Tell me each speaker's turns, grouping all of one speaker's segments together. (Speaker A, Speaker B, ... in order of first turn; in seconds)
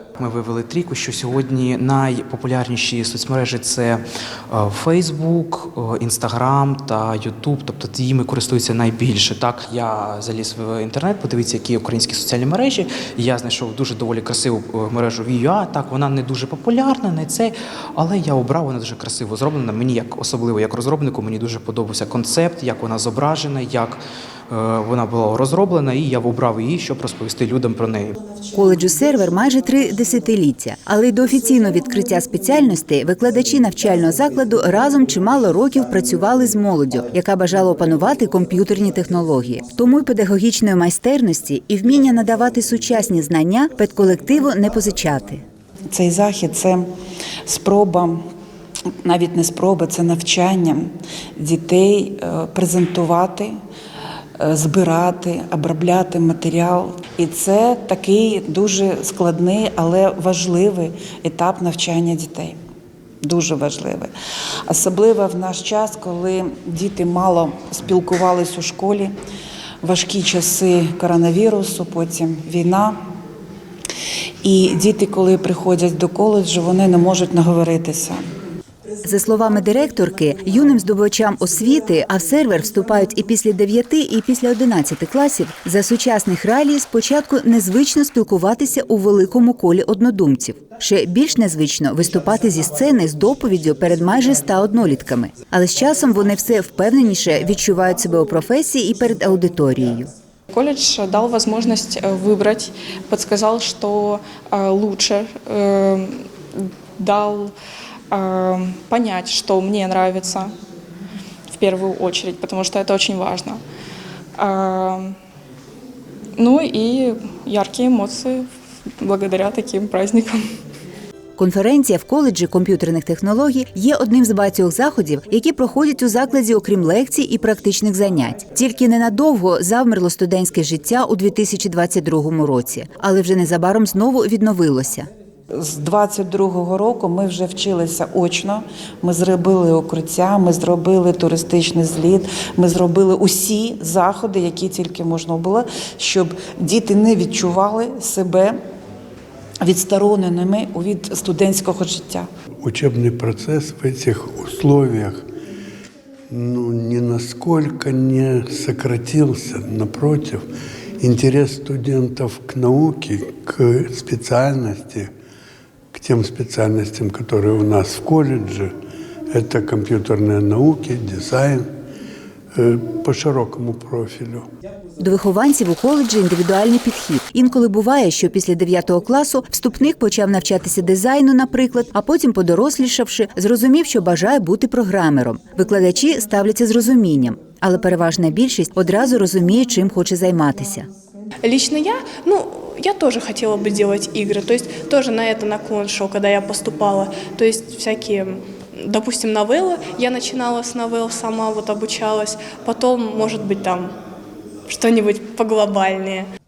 Speaker A: 0.2-28.2
Speaker B: 28.6-45.4, 79.0-100.1, 121.4-135.1, 175.0-190.9
Speaker C: 45.9-46.9, 47.5-48.2, 49.0-53.6, 54.4-62.6, 63.2-64.1, 64.7-69.1, 69.8-73.0, 74.4-78.2, 135.5-148.6, 149.6-152.3
Speaker D: 100.5-107.5, 108.1-110.5, 111.5-113.6, 114.4-115.2, 116.4-118.5, 119.0-120.4
Speaker E: 152.6-155.2, 156.3-160.5, 161.0-165.1, 165.9-168.7, 169.3-171.7, 172.5-174.4
Speaker F: 191.4-203.9, 204.7-206.2